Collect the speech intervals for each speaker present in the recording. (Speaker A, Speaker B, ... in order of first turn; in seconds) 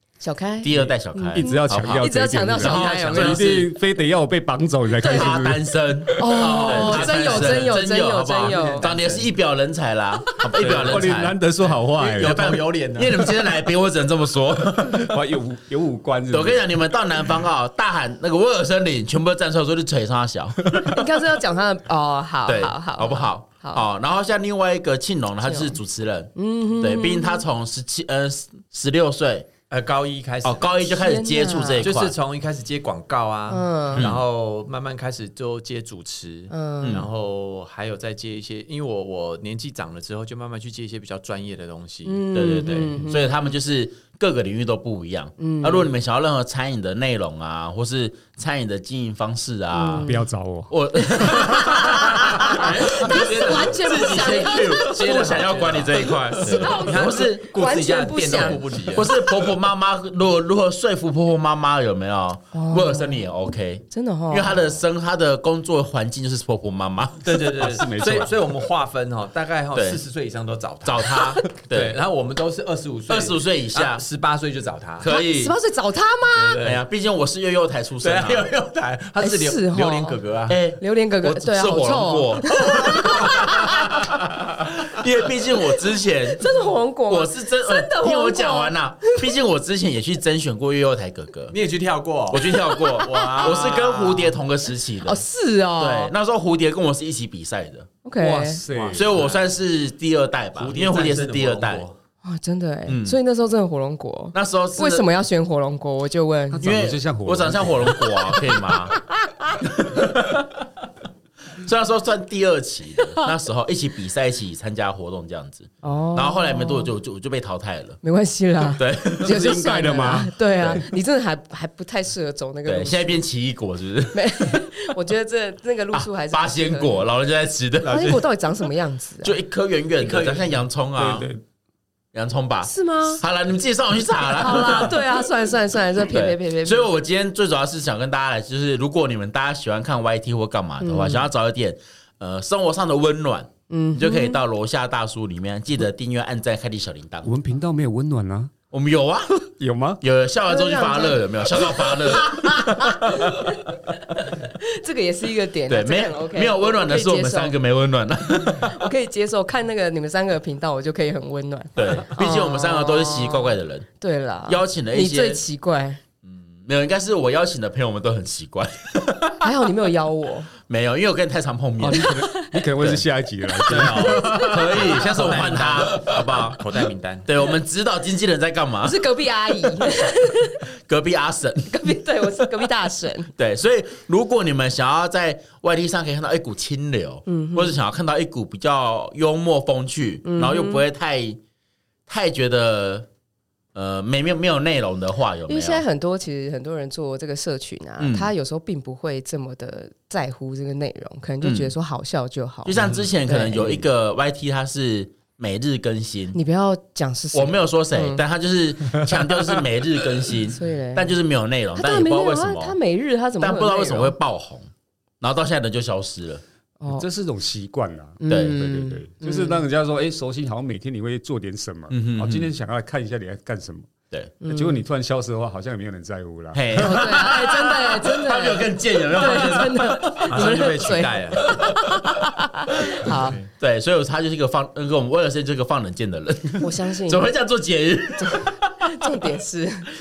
Speaker A: 0.2-3.6, 5.0-5.3, 6.2-8.9, 20.8-23.8, 25.4-25.8, 26.4-27.4, 30.8-31.9, 33.5-34.1, 36.5-37.0, 42.0-43.3, 45.4-45.9, 49.7-50.3, 51.0-55.3, 56.4-58.6, 62.5-63.3, 63.9-64.6, 75.1-76.6, 79.2-80.2, 80.8-84.1, 86.3-89.2, 92.7-93.9, 95.0-96.1, 98.0-98.6, 102.2-106.7, 115.8-116.9, 118.0-123.2, 124.1-127.0, 127.8-129.3, 132.6-133.2, 134.4-136.9, 140.8-141.3, 143.7-144.4, 150.5-157.6, 158.3-166.0, 169.4-170.5, 178.8-180.7, 181.7-183.3, 187.3-187.8, 190.2-190.8, 195.5-203.8, 206.3-208.2, 210.5-211.1, 211.8-214.2, 216.8-217.1, 218.2-219.7, 224.4-224.8, 226.8-233.4, 236.6-237.2, 238.2-239.9
Speaker B: 0.6-3.7, 5.0-11.3, 12.1-15.2, 16.3-21.0, 22.5-29.5, 30.4-32.1, 36.8-37.1, 42.3-50.1, 50.7-57.5, 58.5-67.3, 69.8-70.0, 70.8-72.0, 73.1-74.0, 75.0-75.5, 76.6-78.5, 80.5-86.5, 87.1-91.6, 92.3-95.2, 95.8-97.9, 99.0-101.9, 102.9-103.2, 104.3-105.1, 106.6-109.0, 109.7-110.5, 111.6-118.0, 118.8-119.5, 120.6-120.8, 122.7-124.7, 125.9-128.3, 129.2-131.3, 132.1-135.1, 136.0-147.3, 148.7-149.5, 150.0-153.6, 155.7-158.8, 161.8-163.9, 164.5-165.4, 166.2-169.5, 170.7-173.0, 173.7-176.6, 177.2-179.0, 180.8-182.3, 183.4-191.4, 192.1-193.1, 193.8-195.8, 198.0-198.3, 201.4-201.7, 202.7-206.4, 207.3-212.8, 213.4-214.7, 215.2-216.4, 218.3-218.6, 221.9-222.5, 226.5-230.7, 231.5-231.9, 232.9-239.1
Speaker C: 1.3-7.1, 10.6-12.5, 14.9-16.8, 50.0-51.9, 67.6-68.3, 98.2-99.1, 106.5-108.1, 119.2-120.4, 131.0-131.4, 147.2-148.5, 149.6-150.0, 171.8-174.9, 216.9-223.9, 224.4-227.0
Speaker D: 6.8-7.7, 8.8-9.3, 10.6-13.4, 29.7-30.8, 31.8-43.0, 52.4-59.2, 67.2-75.1, 76.3-76.8, 78.0-80.6, 91.5-94.4, 98.7-99.5, 100.6-102.0, 130.0-130.6, 173.7-177.3, 230.3-231.6, 233.1-233.5